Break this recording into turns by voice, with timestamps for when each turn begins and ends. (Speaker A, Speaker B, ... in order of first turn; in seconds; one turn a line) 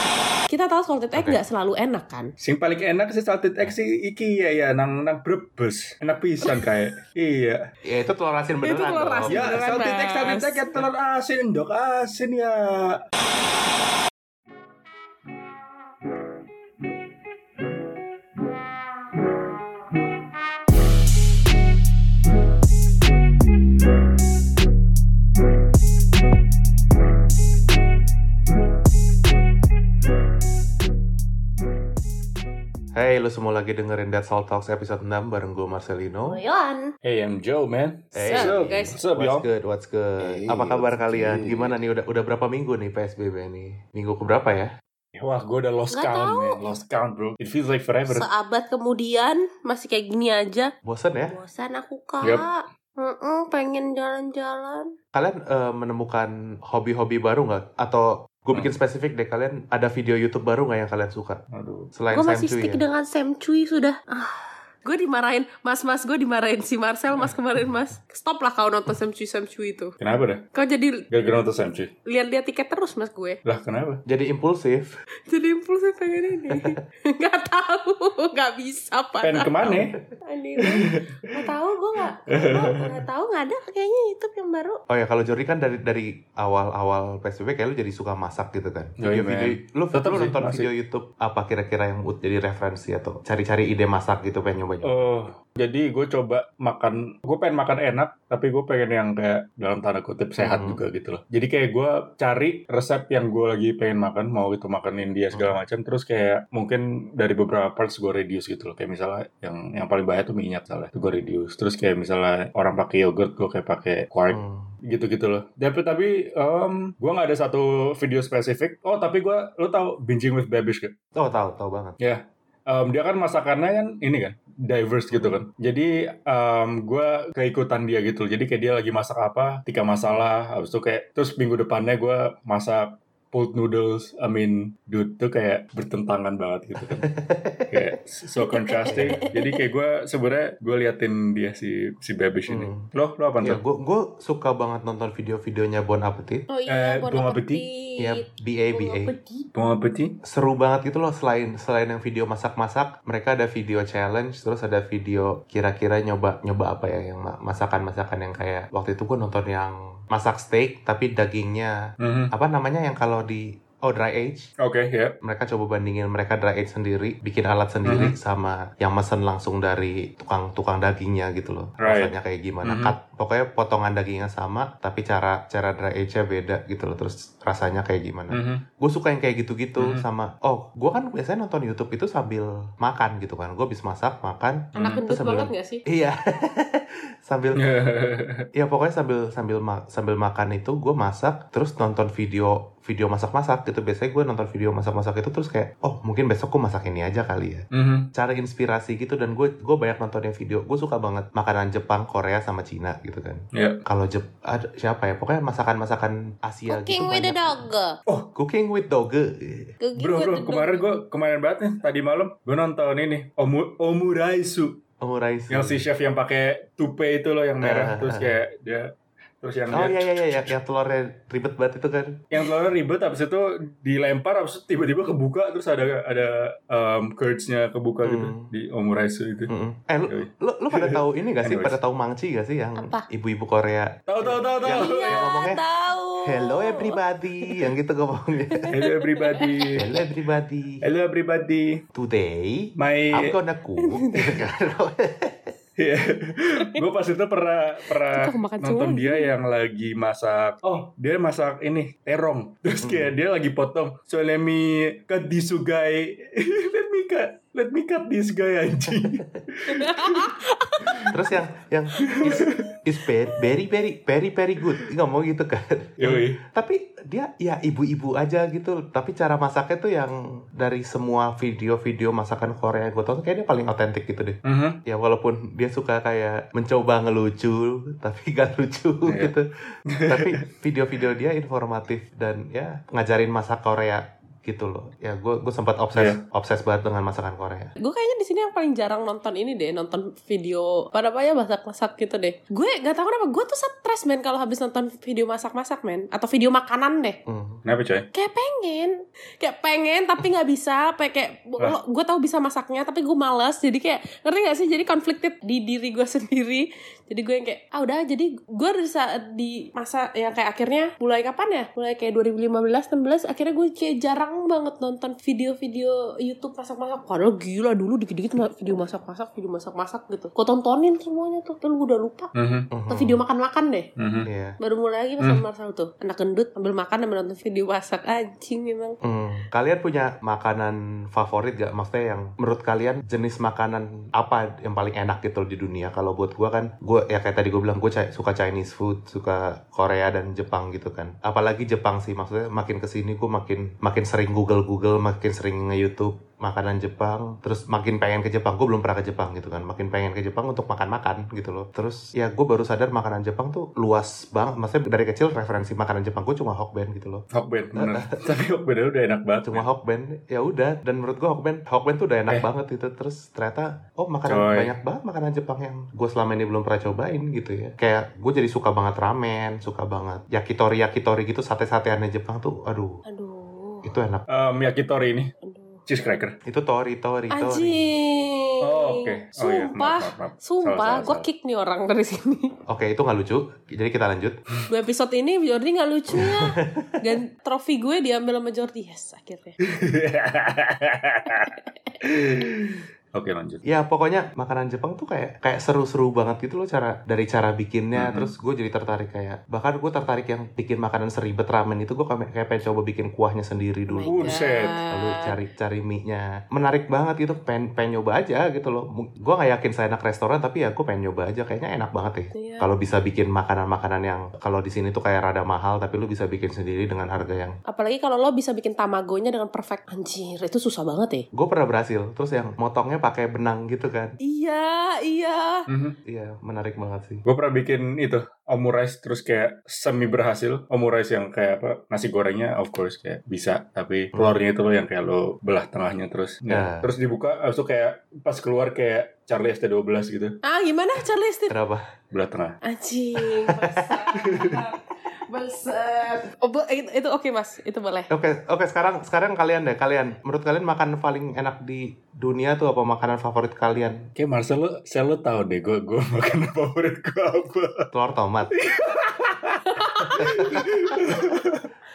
Speaker A: 0.5-2.3
Speaker B: 2.4-7.7
Speaker C: 7.8-9.6
Speaker A: 8.6-10.8
Speaker B: 9.3-13.0
Speaker C: 32.9-36.4
Speaker A: 36.3-36.9
Speaker B: 37.0-39.4
Speaker C: 38.1-44.7
Speaker A: 38.2-39.0
Speaker B: 40.4-41.7
Speaker B: 45.1-48.3
Speaker A: 45.9-46.6
Speaker A: 48.1-50.7
Speaker C: 50.8-51.3
Speaker A: 51.3-54.9
Speaker C: 55.1-61.4
Speaker B: 61.5-61.9
Speaker C: 61.9-62.8
Speaker A: 62.1-69.9
Speaker B: 70.0-70.4
Speaker A: 70.5-71.0
Speaker B: 71.1-71.9
Speaker A: 72.0-73.4
Speaker B: 73.4-74.0
Speaker C: 74.0-75.0
Speaker A: 75.3-79.5
Speaker B: 79.2-79.9
Speaker C: 79.6-80.0
Speaker A: 80.2-84.8
Speaker B: 80.6-81.3
Speaker B: 82.3-83.0
Speaker C: 84.9-95.1
Speaker B: 89.0-90.7
Speaker B: 94.8-120.9
Speaker C: 100.4-100.8
Speaker C: 105.3-105.6
Speaker C: 114.3-114.7
Speaker C: 121.2-122.0
Speaker B: 122.0-137.1
Speaker C: 136.8-137.8
Speaker B: 137.7-143.6
Speaker A: 138.4-139.6
Speaker C: 142.5-142.9
Speaker C: 143.4-146.4
Speaker A: 146.5-149.5
Speaker B: 146.7-147.6
Speaker C: 148.0-149.1
Speaker B: 149.5-150.1
Speaker C: 150.2-161.8
Speaker B: 162.0-162.3
Speaker C: 162.3-164.5
Speaker B: 164.6-165.1
Speaker C: 165.2-187.6
Speaker B: 167.8-168.2
Speaker B: 171.8-172.1
Speaker B: 172.6-172.9
Speaker B: 178.3-178.6
Speaker B: 179.8-180.0
Speaker B: 184.7-185.0
Speaker A: 184.7-185.8
Speaker B: 187.5-188.4
Speaker C: 188.5-207.6
Speaker B: 197.7-198.1
Speaker B: 203.5-203.8
Speaker A: 206.7-208.0
Speaker C: 208.3-209.7
Speaker A: 209.8-210.8
Speaker B: 209.9-214.8
Speaker C: 215.0-215.8
Speaker B: 215.5-220.6
Speaker C: 217.6-218.4
Speaker C: 219.7-222.2
Speaker B: 222.3-229.5
Speaker C: 228.0-228.5
Speaker C: 229.5-235.6
Speaker B: 230.1-231.8
Speaker A: 232.8-233.0
Speaker B: 234.1-235.3
Speaker A: 234.7-237.0
Speaker C: 236.2-238.7
Speaker A: 238.5-239.8
Speaker B: 238.7-239.8
Speaker C: 239.8-240.8
Speaker B: 240.8-241.8
Speaker C: 241.9-245.5
Speaker B: 242.8-243.4
Speaker A: 243.8-244.3
Speaker B: 245.8-261.1
Speaker A: 248.1-249.3
Speaker C: 252.8-253.1
Speaker A: 259.7-261.1
Speaker C: 261.1-279.5
Speaker B: 262.0-262.7
Speaker A: 262.2-262.6
Speaker B: 266.0-266.4
Speaker B: 274.4-274.8
Speaker B: 279.1-279.3
Speaker B: 279.9-280.3
Speaker C: 280.1-287.7
Speaker B: 285.9-286.2
Speaker A: 287.8-297.2
Speaker C: 297.3-297.6
Speaker B: 297.6-298.1
Speaker A: 298.1-322.3
Speaker B: 322.3-322.7
Speaker C: 322.7-323.2
Speaker A: 322.9-323.9
Speaker B: 324.0-324.3
Speaker C: 324.2-324.6
Speaker A: 324.6-329.0
Speaker C: 329.0-357.2
Speaker B: 357.3-359.6
Speaker C: 357.8-358.1
Speaker C: 359.4-373.0
Speaker B: 364.3-364.7
Speaker A: 373.1-373.9
Speaker C: 373.8-374.2
Speaker B: 374.3-375.3
Speaker A: 375.4-375.8
Speaker B: 375.9-376.4
Speaker C: 376.4-377.8
Speaker A: 377.3-382.5
Speaker B: 378.6-381.3
Speaker C: 382.7-384.4
Speaker A: 384.7-389.6
Speaker C: 386.1-387.1
Speaker B: 389.6-393.6
Speaker A: 391.5-391.9
Speaker C: 393.6-404.4
Speaker B: 397.9-398.3
Speaker A: 403.9-405.4
Speaker B: 404.1-404.8
Speaker C: 404.9-417.6
Speaker A: 412.3-412.7
Speaker A: 417.7-421.3
Speaker C: 421.3-424.2
Speaker A: 424.2-425.6
Speaker B: 425.7-425.9
Speaker C: 426.1-427.2
Speaker B: 427.2-440.4
Speaker C: 436.5-436.9
Speaker A: 440.4-441.6
Speaker C: 441.5-441.9
Speaker B: 442.1-442.6
Speaker A: 442.6-448.1
Speaker C: 443.5-443.8
Speaker B: 444.2-444.6
Speaker C: 448.1-454.1
Speaker B: 454.1-457.9
Speaker C: 457.9-458.5
Speaker B: 458.5-461.7
Speaker A: 459.7-460.2
Speaker C: 460.1-461.0